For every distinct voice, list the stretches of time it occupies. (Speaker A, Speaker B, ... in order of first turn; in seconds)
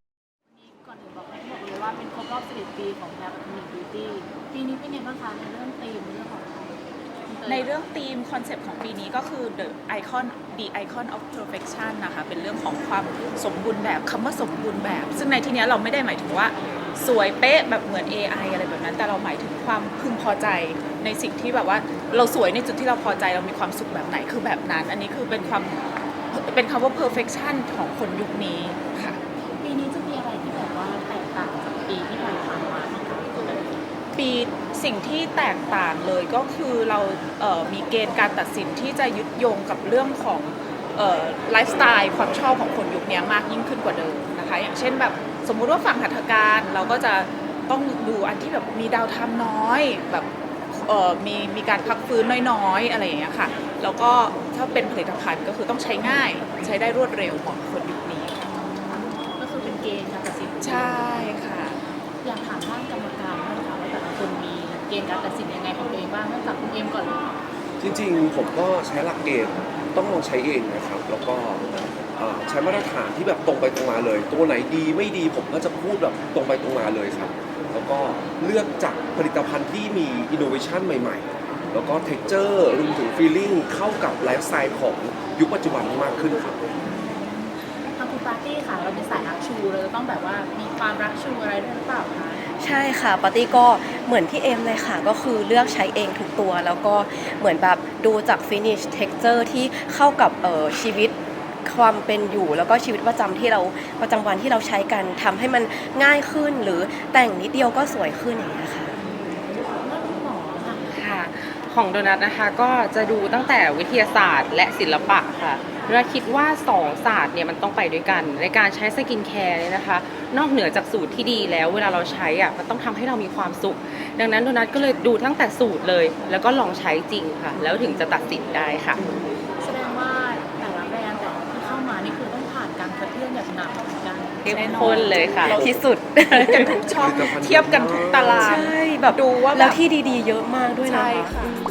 Speaker A: 0.5-7.9, 29.5-33.8, 56.2-56.7, 58.8-61.5, 62.2-67.3, 86.8-92.4, 109.0-110.9, 129.6-135.3
Speaker B: 7.5-25.8, 26.3-29.2, 34.1-58.5, 60.6-61.8, 134.8-135.8, 136.4-139.8, 140.9-141.6
Speaker C: 67.8-86.6, 137.0-138.6
Speaker D: 92.4-108.9, 135.6-137.0, 138.3-141.4
Speaker E: 110.9-129.0, 134.4-135.6, 136.3-136.7